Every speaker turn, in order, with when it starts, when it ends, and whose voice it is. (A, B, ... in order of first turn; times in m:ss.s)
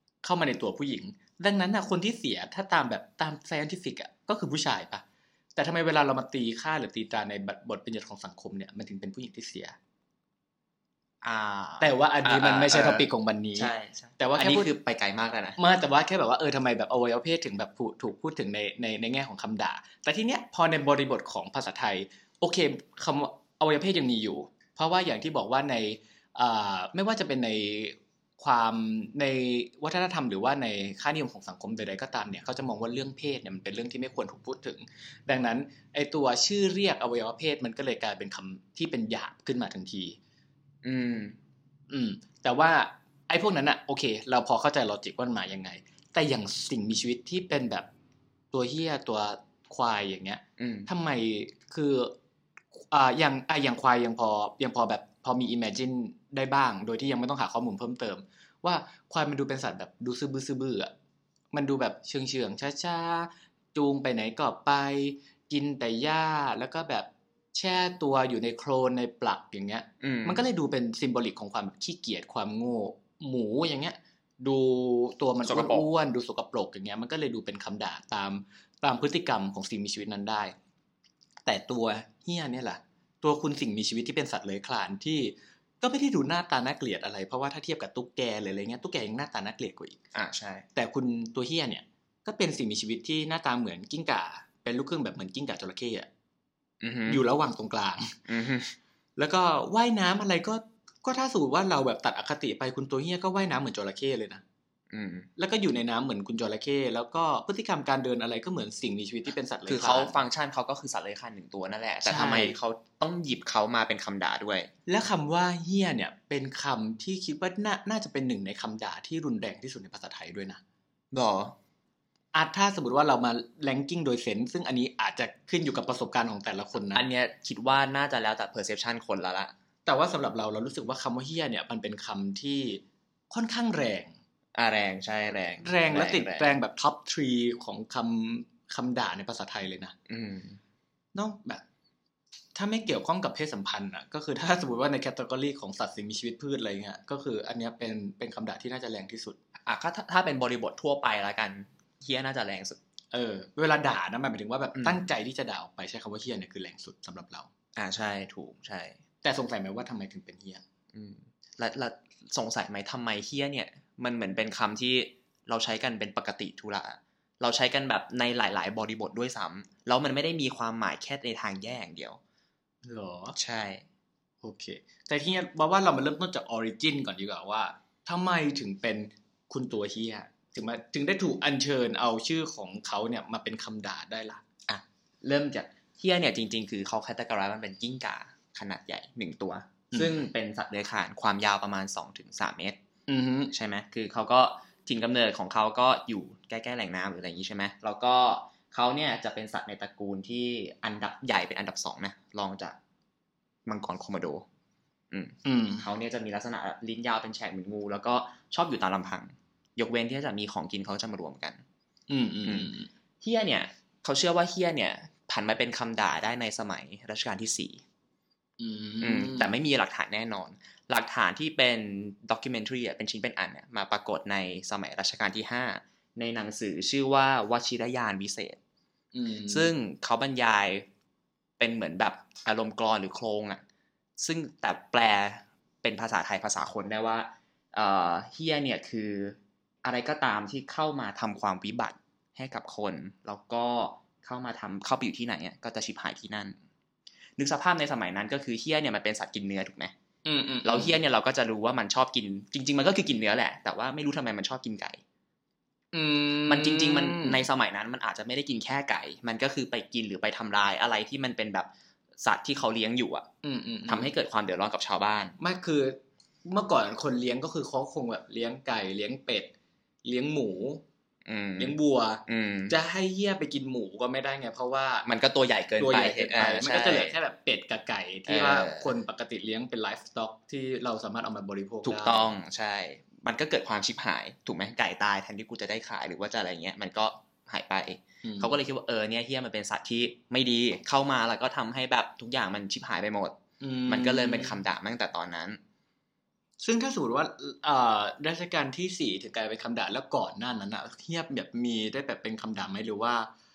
0:00.2-0:05.0 A
0:05.5-0:09.8 A
0:11.2-0:15.6 B
0:11.8-0:14.7 A
0:15.6-0:40.2 A
0:40.8-0:41.4 B
0:41.9-0:47.9 A
0:48.5-0:52.1 A
0:50.6-0:50.9 B
0:52.7-1:00.9 A
1:01.5-1:20.5 A
1:10.0-1:10.4 B
1:15.4-1:15.8 B
1:21.4-1:30.0 A
1:30.1-1:30.6 B
1:30.7-1:36.1 A
1:36.8-1:37.2 B
1:37.1-1:38.2 A
1:38.3-1:38.7 B
1:39.2-1:44.4 A
1:44.9-1:45.3 B
1:45.4-1:50.2 A
1:49.7-1:54.7 B
1:52.0-1:52.6 A
1:54.9-2:00.6 A
2:01.1-2:01.6 B
2:02.3-2:07.0 A
2:06.9-2:09.5 B
2:09.8-2:14.1 A
2:14.5-2:16.5 B
2:15.6-2:19.9 A
2:20.1-2:20.6 B
2:21.1-2:21.6 A
2:22.5-2:29.4 A
2:29.6-2:32.8 B
2:33.1-2:37.5 A
2:34.8-2:35.0 B
2:37.8-2:39.0 B
2:39.2-2:40.6 A
2:40.9-2:52.2 B
2:52.8-2:53.4 A
2:53.3-2:53.8 B
2:54.4-3:04.4 A
3:04.7-3:12.8 B
3:13.1-3:13.5 A
3:13.5-3:22.8 B
3:23.6-3:24.4 B
3:25.1-3:31.6 B
3:25.4-3:25.8 A
3:32.1-3:32.9 A
3:32.4-3:37.8 B
3:38.6-3:39.5 A
3:39.0-3:48.6 B
3:49.1-3:49.7 A
3:49.5-3:50.8 B
3:51.6-3:53.6 B
3:54.2-4:06.6 B
4:07.4-4:09.9 B
4:10.2-4:10.9 A
4:10.6-4:15.0 B
4:15.9-4:17.4 A
4:16.4-4:23.3 B
4:23.4-4:24.1 A
4:23.9-4:25.4 B
4:25.4-4:29.5 A
4:30.0-4:30.8 A
4:31.2-4:32.8 B
4:31.6-4:35.1 A
4:35.0-4:37.2 B
4:35.8-4:42.3 A
4:38.3-4:38.9 B
4:41.8-4:55.6 B
4:48.2-4:48.5 A
4:53.6-4:54.6 A
4:56.6-5:03.3 A